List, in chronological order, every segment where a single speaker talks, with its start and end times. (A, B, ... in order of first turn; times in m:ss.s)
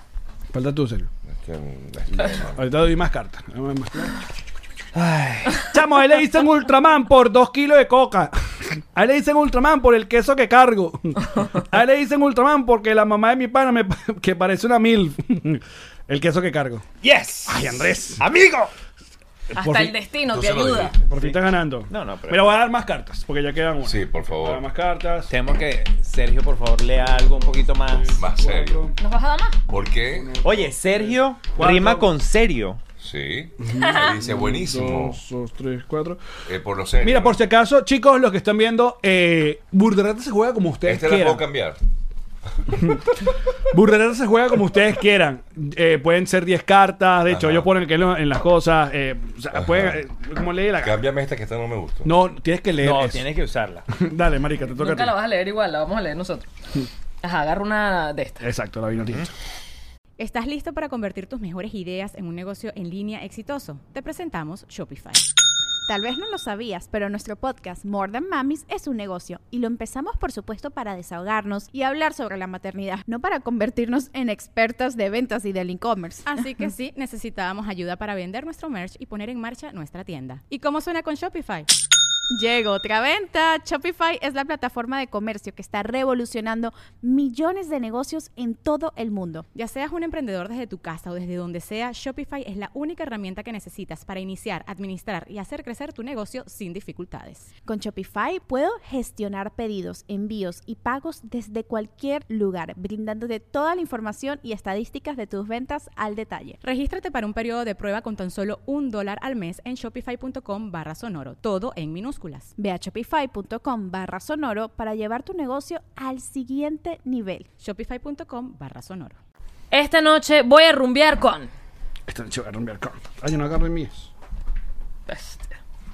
0:00.5-0:01.1 A
0:01.3-0:02.8 B
0:02.2-0:04.1 A
0:04.9-0:05.7 C
0:05.6-0:16.8 A
0:17.0-0:18.7 C
0:17.5-0:18.2 A
0:19.5-0:20.0 A
0:19.5-0:20.9 D
0:20.3-0:21.1 B
0:21.1-0:25.3 A
0:21.9-0:22.6 C
0:23.8-0:24.6 B
0:25.3-0:28.2 C
0:27.9-0:29.0 A
0:28.2-0:28.9 B
0:29.0-0:29.6 D
0:29.7-0:30.4 B
0:30.0-0:32.1 A
0:30.4-0:32.8 C
0:33.0-0:35.2 B
0:33.6-0:36.2 A
0:33.8-0:34.1 D
0:36.4-0:37.4 B
0:37.0-0:41.4 A
0:40.8-0:41.8 B
0:42.7-0:43.1 A
0:43.7-0:51.0 A
0:47.3-0:47.7 B
0:49.5-0:50.0 B
0:50.8-0:52.1 B
0:52.0-0:53.2 A
0:52.8-0:53.8 C
0:53.9-0:55.2 A
0:54.8-0:56.5 D
0:57.2-0:58.4 D
0:58.4-0:59.3 A
0:59.0-0:59.3 C
1:00.2-1:05.2 E
1:05.9-1:16.4 F
1:16.2-1:21.7 E
1:22.3-1:29.4 F
1:29.5-1:37.5 E
1:37.6-1:46.6 F
1:46.6-1:52.5 E
1:52.6-1:57.5 F
1:57.6-1:59.2 E
1:59.7-2:01.5 D
2:02.1-2:04.1 A
2:05.1-2:05.5 D